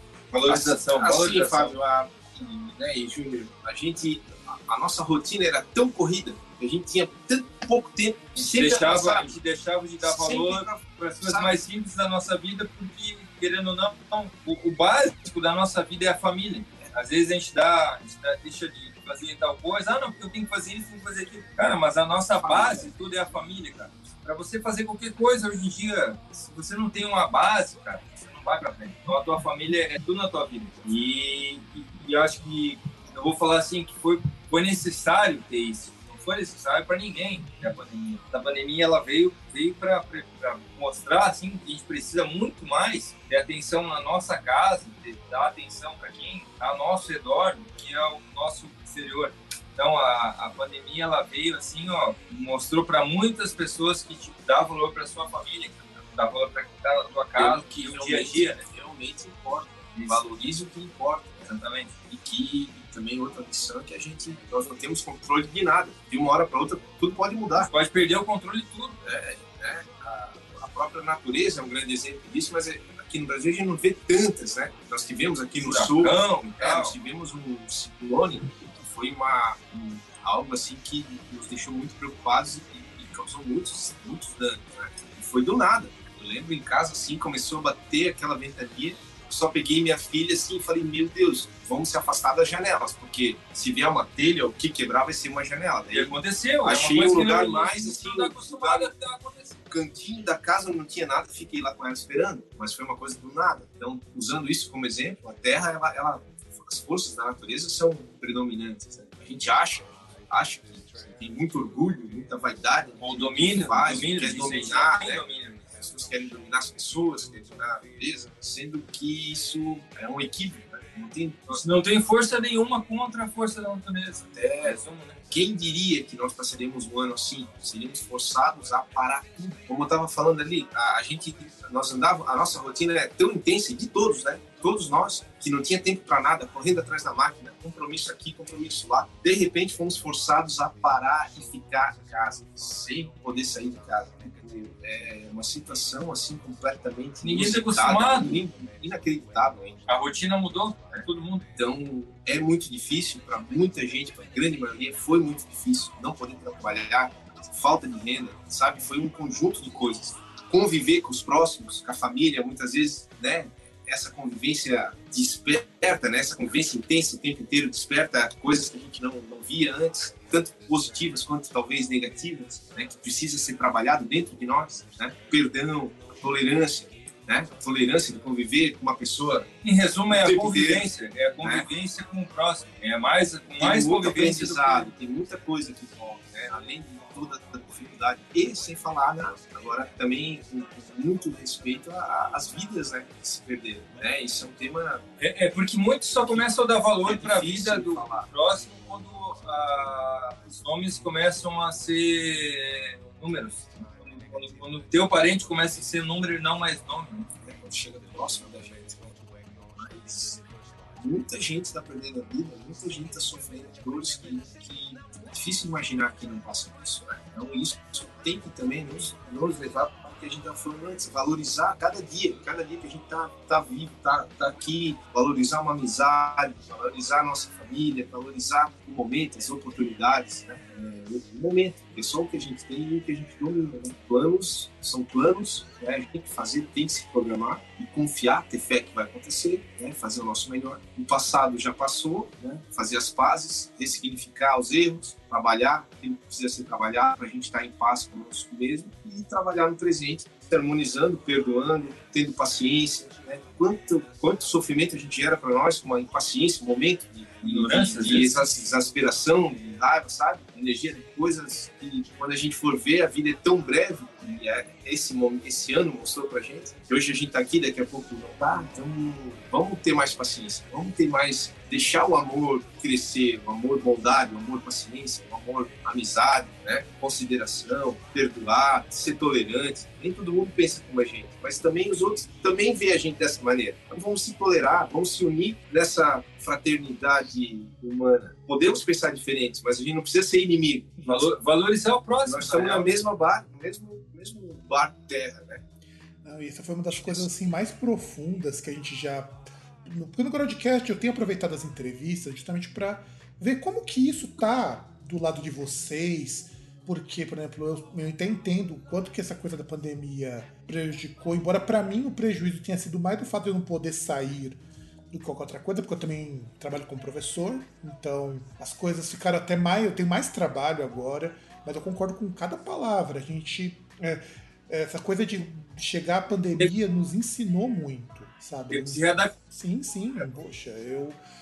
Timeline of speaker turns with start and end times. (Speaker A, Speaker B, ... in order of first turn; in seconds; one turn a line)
Speaker A: 0.3-1.7
Speaker B: 0.5-9.3
Speaker A: 8.3-58.6
Speaker B: 10.0-11.6
Speaker B: 22.4-22.9
Speaker B: 57.4-61.5
Speaker A: 59.9-60.3
Speaker A: 61.5-61.9
Speaker B: 62.1-67.7
Speaker A: 67.6-69.0
Speaker B: 69.0-98.9
Speaker A: 75.5-76.9
Speaker A: 95.9-99.5
Speaker B: 99.7-121.6
Speaker A: 113.0-115.7
Speaker A: 121.5-125.2
Speaker B: 124.3-124.8
Speaker B: 125.3-149.8
Speaker A: 147.2-148.4
Speaker A: 149.9-151.5
Speaker B: 151.6-179.5
Speaker A: 179.6-184.9
Speaker B: 180.1-180.9
Speaker B: 181.4-181.7
Speaker B: 183.6-195.0
Speaker A: 195.2-207.3
Speaker B: 196.2-196.5
Speaker B: 197.0-198.3
Speaker B: 207.4-210.4
Speaker B: 211.0-291.3
Speaker A: 257.4-258.4
Speaker A: 291.0-293.0
Speaker B: 292.2-295.6
Speaker C: 296.2-331.2
Speaker A: 328.7-329.3